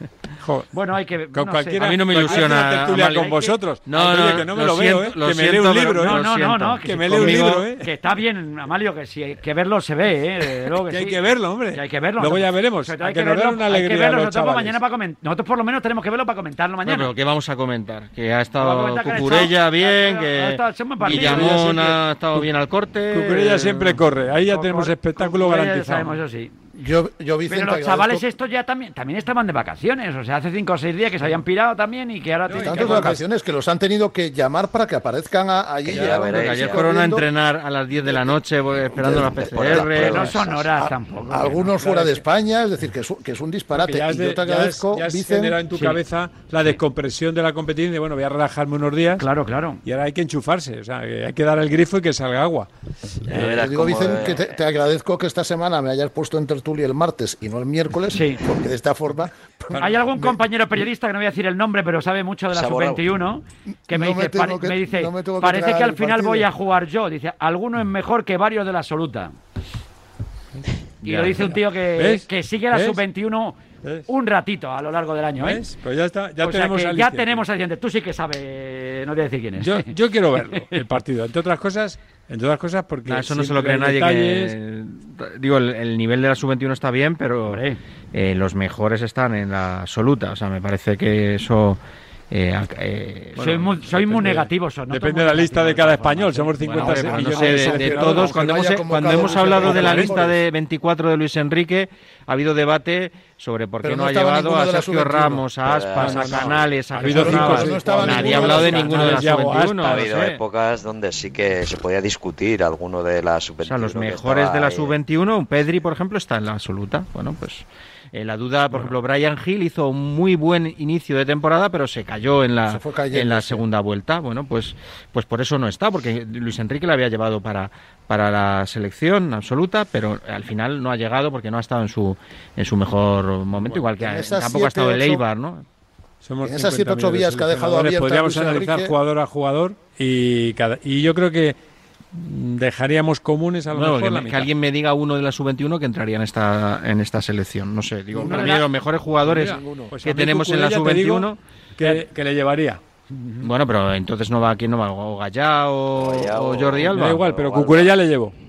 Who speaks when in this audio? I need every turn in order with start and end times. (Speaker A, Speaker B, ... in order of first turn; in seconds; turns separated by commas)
Speaker A: 0.4-0.7, Speaker B: 0.7-3.5, Speaker A: 1.3-7.9, Speaker C: 1.8-7.6, Speaker B: 6.0-17.1, Speaker A: 10.8-14.8, Speaker C: 16.8-24.0, Speaker B: 18.6-21.7, Speaker A: 21.1-22.5, Speaker A: 23.1-26.1, Speaker B: 24.5-26.5, Speaker D: 26.8-28.3, Speaker B: 27.5-33.2, Speaker A: 32.5-33.2, Speaker D: 32.6-37.2, Speaker E: 35.8-36.9, Speaker C: 35.9-40.4, Speaker D: 38.0-38.4, Speaker D: 38.9-45.6, Speaker E: 39.0-40.7, Speaker B: 40.0-42.2, Speaker A: 43.7-49.2, Speaker B: 45.7-46.0, Speaker B: 49.2-49.8, Speaker A: 49.8-52.7, Speaker E: 53.3-54.5, Speaker D: 53.3-60.4, Speaker B: 58.1-58.4, Speaker A: 59.7-60.0, Speaker B: 59.8-69.3, Speaker E: 62.5-63.0, Speaker D: 63.9-66.5, Speaker B: 71.0-75.6, Speaker A: 71.1-73.0, Speaker A: 75.4-77.5, Speaker B: 76.4-80.7, Speaker A: 79.6-84.5, Speaker C: 83.0-91.8, Speaker B: 87.5-87.8, Speaker C: 92.3-94.4, Speaker A: 93.3-100.3, Speaker B: 93.4-98.0, Speaker C: 96.6-110.4, Speaker D: 97.8-100.4, Speaker D: 103.8-105.5, Speaker E: 105.6-106.5, Speaker A: 106.0-110.2, Speaker D: 107.0-109.3, Speaker E: 109.8-115.0, Speaker C: 113.6-135.6, Speaker A: 118.7-118.9, Speaker D: 122.7-123.6, Speaker A: 133.6-133.8, Speaker D: 134.0-135.2, Speaker A: 136.2-141.6, Speaker D: 136.4-138.9, Speaker A: 142.1-144.5, Speaker C: 143.7-151.4, Speaker A: 148.2-148.7, Speaker D: 148.2-148.5, Speaker A: 149.2-152.8, Speaker B: 153.1-153.5, Speaker C: 153.4-157.3, Speaker E: 155.9-157.9, Speaker A: 156.8-158.3